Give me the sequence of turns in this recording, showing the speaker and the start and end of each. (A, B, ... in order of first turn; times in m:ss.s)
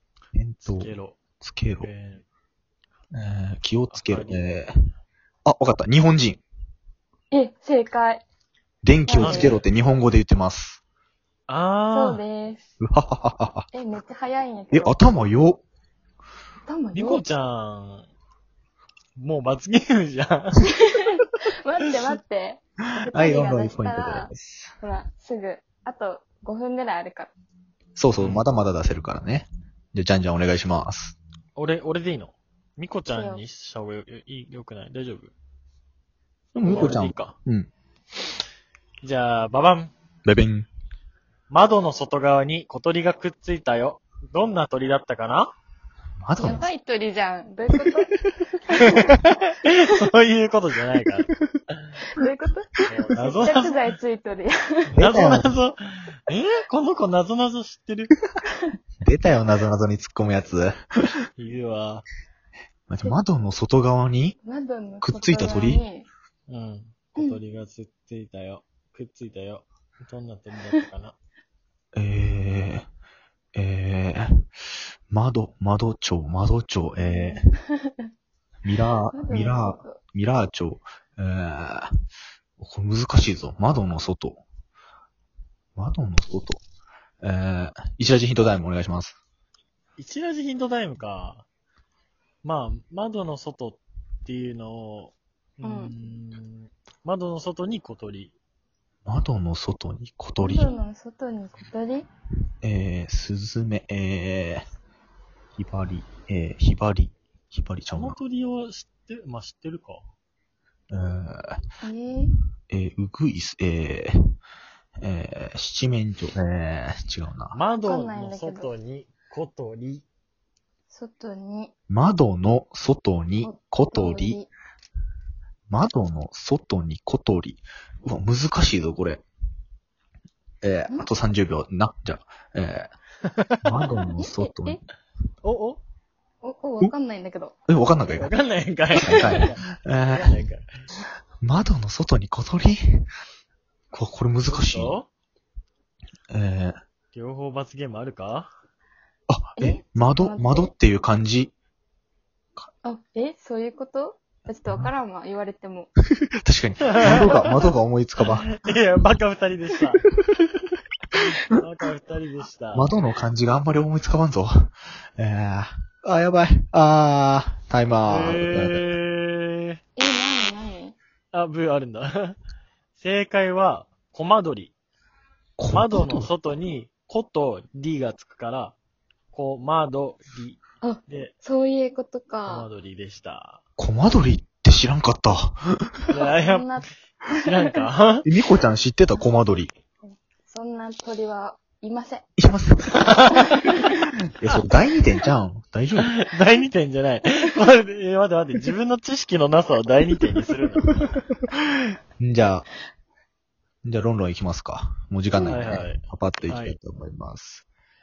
0:00.3-0:01.9 A
0:00.6-0:01.2 B
0:01.8-0:02.2 B
0:03.1-0:04.7 A
0:03.9-0:04.4 B
0:05.4-0:06.4 A
0:07.3-0:08.2 C
0:08.8-0:10.8 A
0:09.0-0:09.6 C
0:09.2-0:09.6 B
0:11.5-0:12.2 B
0:11.9-0:12.7 C
0:12.8-0:13.7 A
0:13.7-0:15.0 C
0:14.7-0:15.6 A
0:16.6-0:17.2 C
0:16.9-0:18.1 B
0:19.2-0:20.7 B
0:20.7-0:24.3 C
0:23.1-0:24.7 A
0:24.8-0:27.3 C
0:28.0-0:31.2 A
0:28.2-0:28.4 B
0:31.6-0:35.3 B
0:33.1-0:33.4 C
0:36.5-0:37.7 A
0:36.6-0:37.3 B
0:39.0-0:39.9 B
0:40.2-0:40.7 A
0:41.5-0:45.5 B
0:46.2-0:46.7 A
0:46.4-0:49.2 C
0:48.7-0:51.3 B
0:52.1-0:54.6 C
0:52.9-0:53.8 B
0:54.9-0:58.1 B
0:55.0-0:55.5 A
0:59.0-1:00.8 A
1:01.4-1:02.1 B
1:02.9-1:04.4 A
1:04.4-1:06.1 C
1:05.0-1:05.8 A
1:06.5-1:11.1 B
1:11.9-1:12.8 A
1:13.5-1:14.4 A
1:15.1-1:17.4 A
1:17.0-1:18.1 C
1:18.6-1:21.9 A
1:19.1-1:20.0 C
1:22.6-1:24.4 A
1:25.8-1:26.6 A
1:27.2-1:29.2 A
1:30.0-1:31.4 B
1:32.4-1:38.3 B
1:35.6-1:35.9 C
1:39.0-1:40.8 A
1:40.4-1:42.1 C
1:42.6-1:44.6 A
1:45.6-1:48.2 A
1:47.9-1:50.0 B
1:50.9-1:51.6 A
1:51.8-1:52.3 C
1:52.7-1:54.1 A
1:55.0-1:57.6 A
1:57.5-2:00.0 B
1:57.8-1:58.7 C
2:00.9-2:01.7 C
2:01.9-2:04.4 A
2:03.4-2:04.5 C
2:05.7-2:09.2 A
2:10.6-2:12.9 A
2:13.3-2:13.9 B
2:13.6-2:14.8 A
2:14.2-2:14.8 C
2:15.4-2:15.8 B
2:16.4-2:17.5 C
2:17.7-2:18.3 A
2:18.1-2:20.6 B
2:19.0-2:20.4 A
2:19.1-2:19.4 C
2:21.4-2:23.1 A
2:23.9-2:25.0 A
2:24.5-2:25.1 B
2:26.3-2:26.7 A
2:27.1-2:28.5 B
2:29.3-2:31.5 A
2:29.6-2:30.7 C
2:32.8-2:35.9 C
2:36.2-2:38.6 A
2:36.9-2:37.7 B
2:38.2-2:40.0 B
2:41.2-2:42.9 B
2:42.7-2:48.8 A
2:48.1-2:49.8 B
2:50.0-2:51.0 C
2:51.3-2:52.4 B
2:53.0-2:54.7 B
2:55.6-2:56.3 A
2:55.7-2:58.7 B
2:59.3-3:01.3 B
3:00.8-3:02.7 C
3:02.4-3:03.6 B
3:03.8-3:05.9 A
3:06.1-3:06.8 B
3:06.2-3:07.6 C
3:07.3-3:08.2 B
3:08.2-3:09.7 A
3:10.4-3:12.2 C
3:12.4-3:13.0 A
3:12.9-3:13.8 B
3:13.5-3:14.0 C
3:14.3-3:16.1 A
3:16.0-3:21.2 B
3:22.2-3:22.7 A
3:23.8-3:27.6 A
3:25.4-3:26.8 B